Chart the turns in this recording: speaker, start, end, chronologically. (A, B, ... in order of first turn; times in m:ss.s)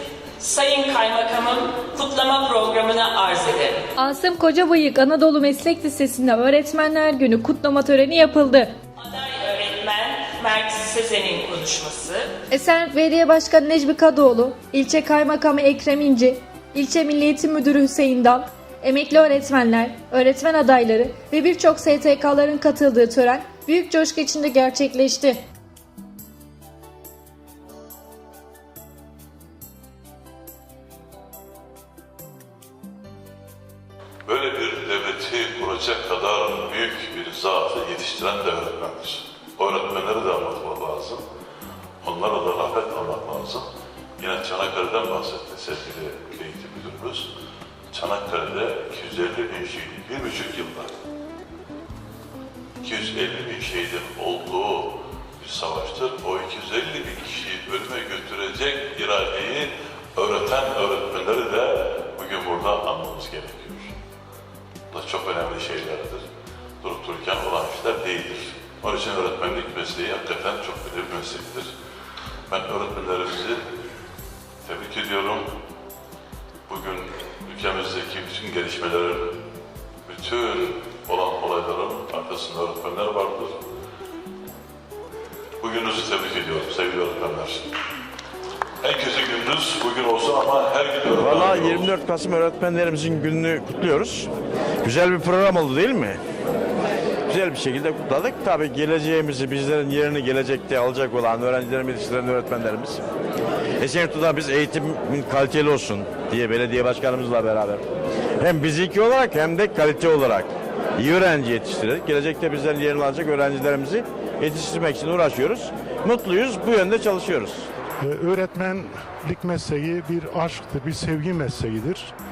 0:00.4-0:03.9 A
0:04.0-0:08.8 B
0:09.0-0:12.3 A
0:12.5-0:25.4 B
0:34.3-0:41.2 C
0:42.0-0:43.7 C
0:44.2-0:47.3 C
0:47.9-0:50.9 C
0:52.8-1:04.0 C
1:04.9-1:06.2 C
1:06.8-1:11.7 C
1:12.5-1:13.6 C
1:14.6-1:15.5 C
1:16.7-1:19.3 C
1:20.0-1:23.6 C
1:25.6-1:27.7 C
1:28.8-1:31.9 C
1:31.1-1:34.3 D
1:34.8-1:36.2 D
1:37.3-1:43.0 D
1:43.8-1:47.8 D
1:48.4-1:57.7 D
1:58.0-2:02.1 E